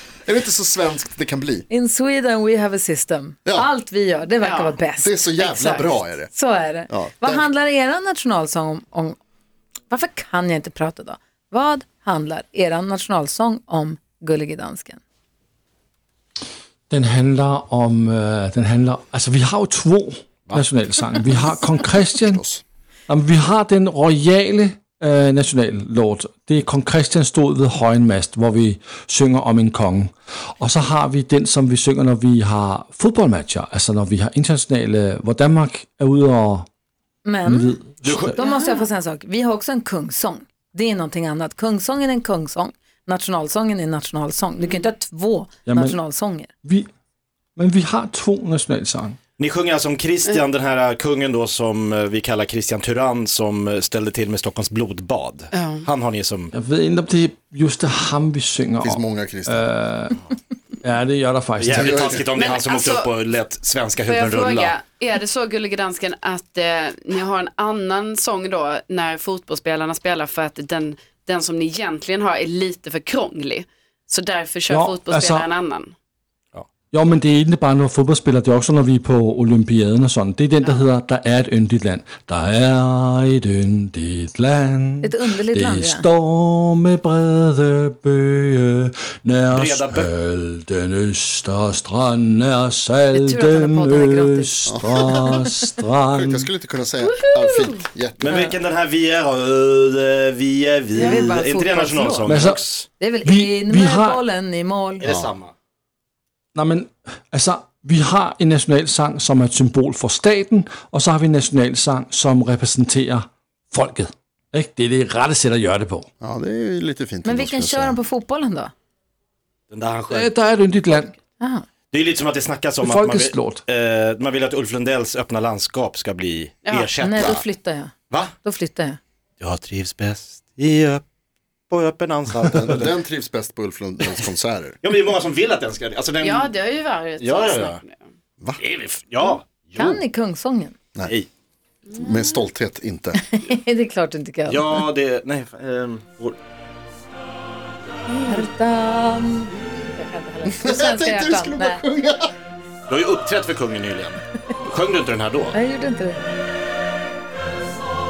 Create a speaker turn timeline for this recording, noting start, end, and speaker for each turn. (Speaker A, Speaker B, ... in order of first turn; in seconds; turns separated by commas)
Speaker A: 0.2-1.7, Speaker B: 1.7-5.2, Speaker C: 4.4-4.8, Speaker A: 5.0-6.3, Speaker C: 5.4-5.9, Speaker B: 6.3-9.2, Speaker A: 6.9-7.4, Speaker B: 9.9-15.0, Speaker D: 16.9-22.4, Speaker A: 22.2-22.6, Speaker D: 23.1-36.6, Speaker B: 37.2-37.8, Speaker D: 37.5-38.4, Speaker E: 38.0-38.4, Speaker B: 38.4-46.5, Speaker C: 38.4-38.8, Speaker D: 45.7-46.0, Speaker D: 47.5-49.2, Speaker E: 49.4-56.5, Speaker C: 55.5-55.9, Speaker D: 56.5-60.2, Speaker A: 58.8-59.6, Speaker D: 60.8-62.2, Speaker E: 61.6-64.8, Speaker A: 61.7-62.2, Speaker C: 62.2-63.1, Speaker C: 64.0-75.9, Speaker D: 74.7-75.5, Speaker D: 76.9-96.5, Speaker B: 85.0-86.1, Speaker E: 89.5-90.1, Speaker B: 93.1-94.6, Speaker A: 94.7-95.4, Speaker A: 96.1-98.5, Speaker C: 97.2-97.8, Speaker E: 98.2-102.9, Speaker C: 101.0-101.3, Speaker B: 101.0-102.5, Speaker D: 102.2-102.6, Speaker B: 103.0-105.0, Speaker D: 103.2-104.2, Speaker E: 105.0-105.5, Speaker A: 105.0-105.3, Speaker D: 106.5-116.1, Speaker A: 116.2-118.0, Speaker B: 117.2-118.7, Speaker E: 119.7-120.3, Speaker D: 120.1-121.1, Speaker B: 121.4-121.6, Speaker E: 121.9-127.4, Speaker D: 122.8-123.6, Speaker C: 126.7-126.9, Speaker B: 127.0-129.0, Speaker A: 127.2-127.4, Speaker E: 129.4-131.0, Speaker E: 131.7-132.9, Speaker A: 132.5-134.8, Speaker E: 134.8-136.5, Speaker C: 136.2-138.0, Speaker E: 137.2-137.8, Speaker E: 138.6-140.0, Speaker B: 139.8-140.7, Speaker A: 141.9-143.2, Speaker B: 143.2-144.8, Speaker E: 144.5-146.4, Speaker B: 148.2-151.8, Speaker A: 150.4-152.3, Speaker E: 152.9-155.5, Speaker B: 155.5-156.3